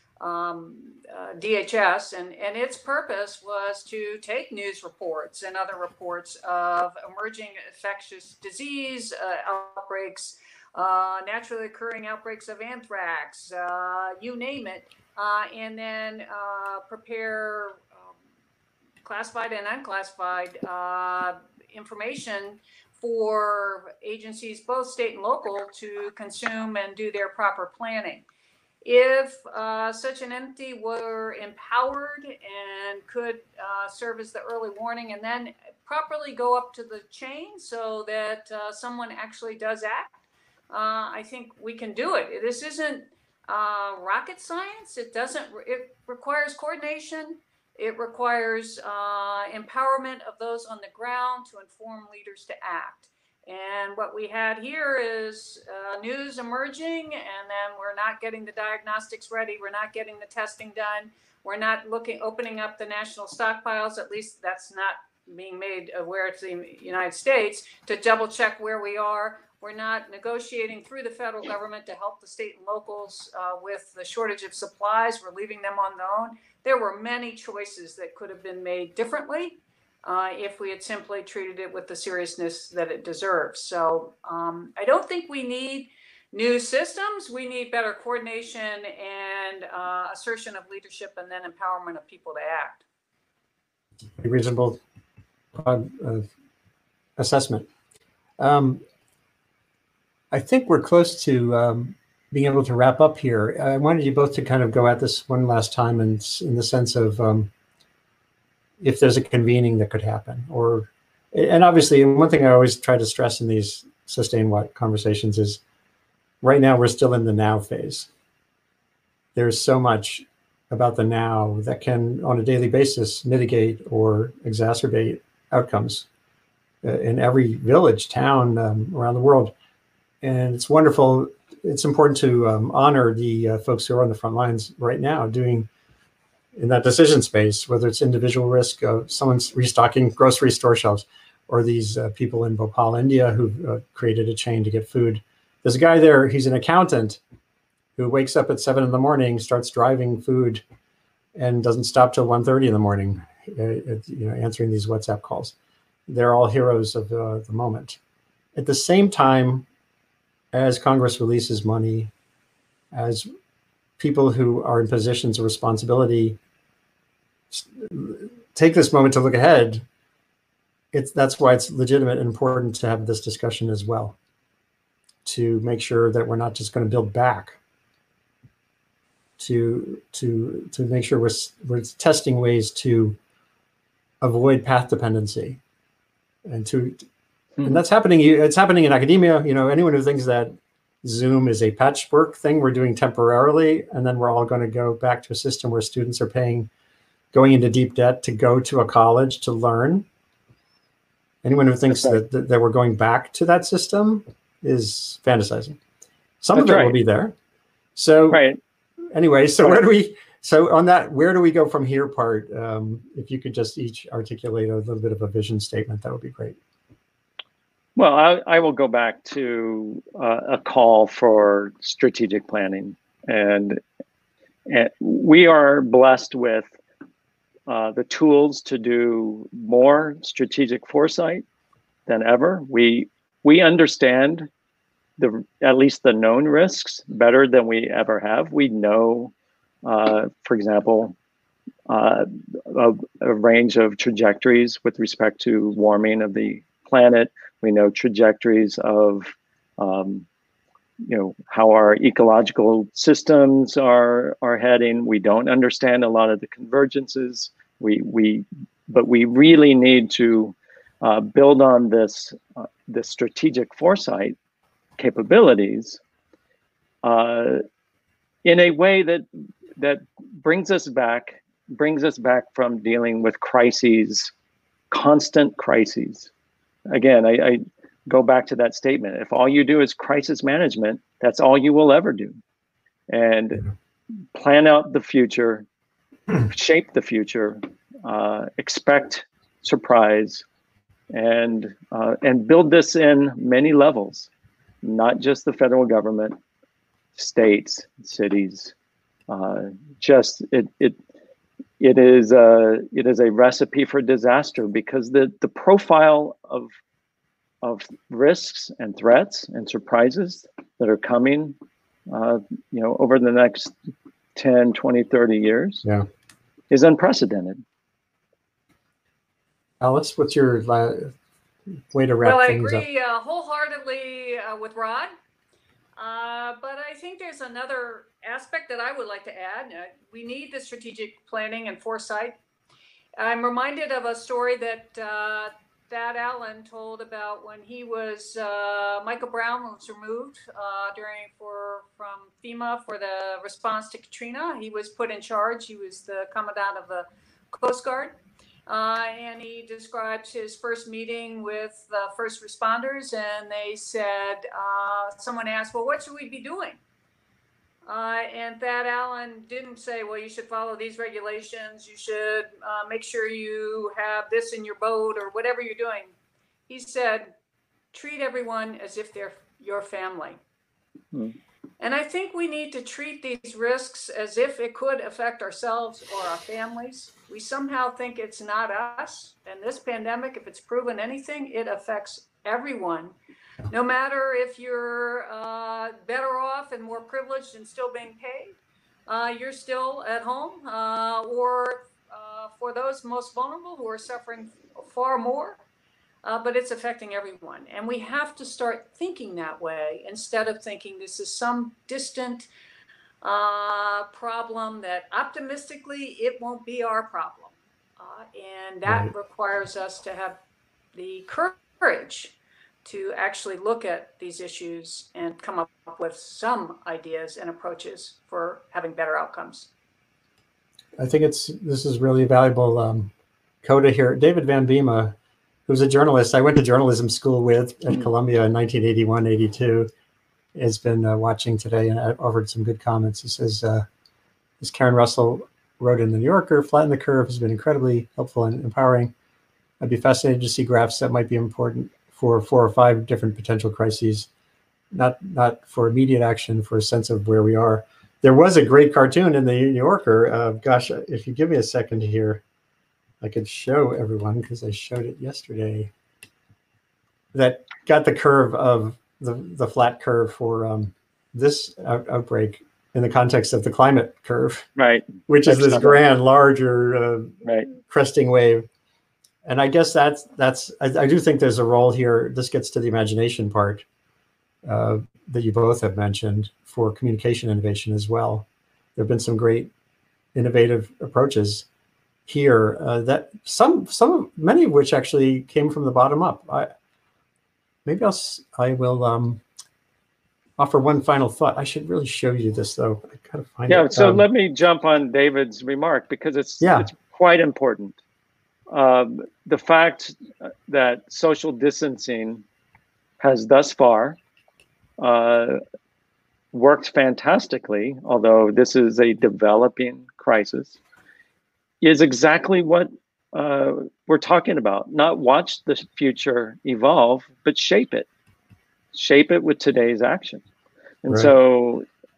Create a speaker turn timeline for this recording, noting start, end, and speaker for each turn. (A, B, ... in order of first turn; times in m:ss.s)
0:00.2-0:18.1 A
0:19.0-0:28.2 A
0:28.8-0:40.1 A
0:40.7-1:32.8 A
1:34.2-1:34.8 B
1:35.5-1:36.3 B
1:37.2-1:37.7 B
1:38.4-1:38.8 B
1:40.3-1:47.5 B
1:48.8-1:55.6 B
1:56.4-1:58.1 B
1:59.4-2:06.1 B
2:06.8-2:09.5 B
2:10.2-2:15.7 B
2:16.6-2:27.2 B
2:28.0-2:30.6 B
2:31.4-2:35.6 B
2:36.1-2:38.0 B
2:38.6-2:39.7 B
2:40.5-2:42.1 B
2:42.9-2:43.3 B
2:44.0-2:46.4 B
2:47.5-2:49.8 B
2:50.9-2:54.2 B
2:55.2-2:57.6 B
2:59.4-3:03.2 B
3:04.2-3:05.6 B
3:06.5-3:07.0 B
3:07.6-3:16.7 B
3:17.3-3:20.1 B
3:21.4-3:25.8 B
3:21.9-3:22.2 C
3:26.4-3:27.4 B
3:26.6-3:27.0 C
3:28.0-3:28.4 B
3:28.3-3:28.6 C
3:29.1-3:36.6 B
3:38.0-3:43.8 C
3:44.7-3:46.7 C
3:47.7-3:51.4 C
3:52.1-3:54.5 C
3:55.2-3:59.3 C
3:59.8-4:01.2 C
4:01.9-4:10.3 C
4:11.1-4:24.4 C
4:25.0-4:26.0 C
4:27.0-4:27.6 C
4:28.4-4:29.2 C
4:29.8-4:34.3 C
4:34.9-4:36.3 C
4:36.9-4:42.4 C
4:43.1-4:43.6 C
4:44.4-4:45.6 C
4:46.4-4:50.4 C
4:51.1-4:54.3 C
4:54.8-4:56.4 C
4:57.2-4:58.7 C
4:59.3-5:01.0 C
5:01.8-5:06.7 C
5:07.6-5:11.6 C
5:12.1-5:13.7 C
5:14.4-5:15.8 C
5:16.7-5:17.6 C
5:19.8-5:21.1 B
5:21.9-5:22.8 B
5:22.2-5:25.1 A
5:26.0-5:32.4 A
5:33.2-5:48.1 A
5:48.7-5:56.8 A
5:57.9-6:06.1 A
6:06.7-6:07.3 A
6:07.9-6:10.4 A
6:11.8-6:23.1 A
6:23.7-6:35.6 A
6:36.2-6:42.5 A
6:43.2-6:50.4 A
6:50.9-6:59.7 A
7:01.0-7:03.1 B
7:03.6-7:05.2 B
7:05.7-7:09.9 B
7:10.6-7:13.9 B
7:14.6-7:19.1 B
7:19.8-7:24.3 B
7:24.9-7:32.4 B
7:33.2-7:35.9 B
7:37.3-7:44.7 B
7:44.8-7:46.0 C
7:45.3-7:48.7 B
7:47.4-7:47.7 C
7:49.4-7:53.8 B
7:54.6-7:59.7 B
8:00.4-8:01.7 B
8:02.3-8:06.7 B
8:07.8-8:09.4 B
8:10.6-8:14.2 B
8:13.7-8:18.0 C
8:16.6-8:16.9 B
8:18.7-8:22.4 C
8:23.2-8:24.2 C
8:25.0-8:25.6 C
8:26.5-8:30.8 C
8:31.8-8:38.1 C
8:38.9-8:40.4 C
8:41.0-8:41.9 C
8:41.1-8:41.3 B